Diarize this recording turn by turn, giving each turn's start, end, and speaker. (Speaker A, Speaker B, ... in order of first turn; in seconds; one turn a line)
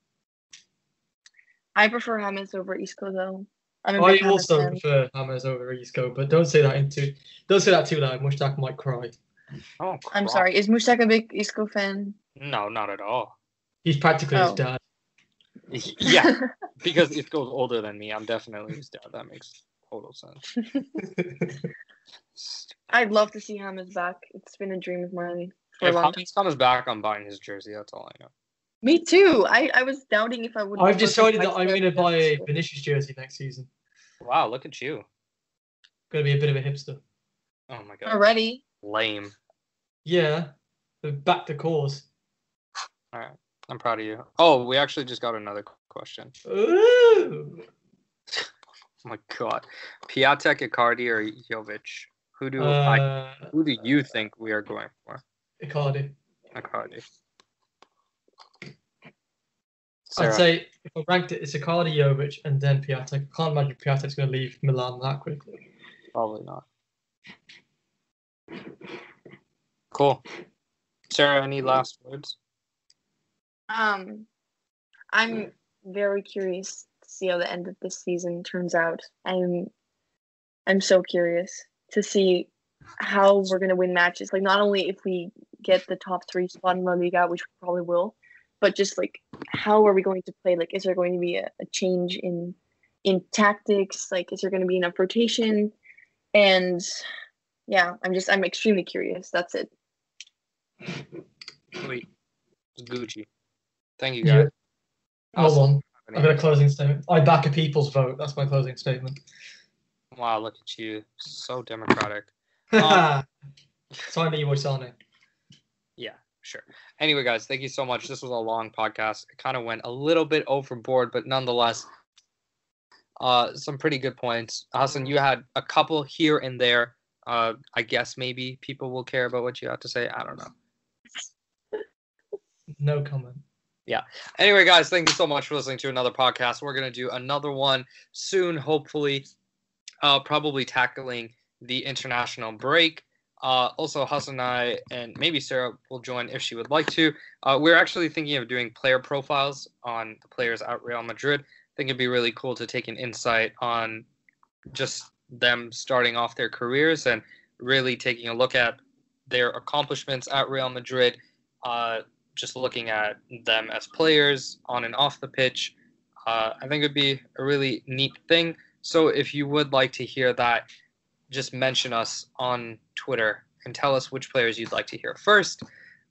Speaker A: 1.8-4.8
Speaker B: 4.0-9.2
Speaker C: 9.8-10.5
Speaker A: 10.1-12.2
Speaker C: 12.4-13.3
Speaker B: 13.8-14.8
Speaker A: 14.3-14.6
Speaker C: 15.7-20.4
Speaker A: 16.0-16.4
Speaker B: 21.0-21.6
Speaker C: 22.4-22.8
Speaker A: 22.9-26.2
Speaker C: 25.8-28.3
Speaker A: 28.8-32.5
Speaker B: 30.8-33.7
Speaker C: 34.2-35.1
Speaker B: 36.1-37.0
Speaker C: 37.7-38.2
Speaker A: 38.1-38.6
Speaker C: 38.8-39.3
Speaker B: 40.0-42.1
Speaker C: 43.1-46.3
Speaker B: 46.5-47.6
Speaker C: 49.0-55.2
Speaker B: 52.6-53.5
Speaker B: 55.6-56.2
Speaker C: 56.5-57.0
Speaker C: 60.1-60.5
Speaker B: 60.2-65.6
Speaker C: 66.1-66.7
Speaker C: 69.9-70.2
Speaker C: 71.1-72.4
Speaker A: 73.7-74.3
Speaker A: 75.1-79.7
Speaker A: 80.7-95.7
Speaker A: 96.3-97.0
Speaker A: 97.7-99.7
Speaker C: 101.8-102.0
Speaker C: 102.8-103.3
Speaker C: 104.0-104.5
Speaker B: 104.2-104.5
Speaker B: 105.3-109.2
Speaker C: 105.4-106.4
Speaker C: 110.1-113.1
Speaker B: 112.7-113.3
Speaker B: 114.1-114.9
Speaker C: 116.0-121.9
Speaker C: 123.2-130.5
Speaker B: 132.8-133.4
Speaker C: 133.9-139.3
Speaker C: 140.0-154.1
Speaker C: 154.7-165.8
Speaker C: 166.3-170.7
Speaker C: 171.3-175.6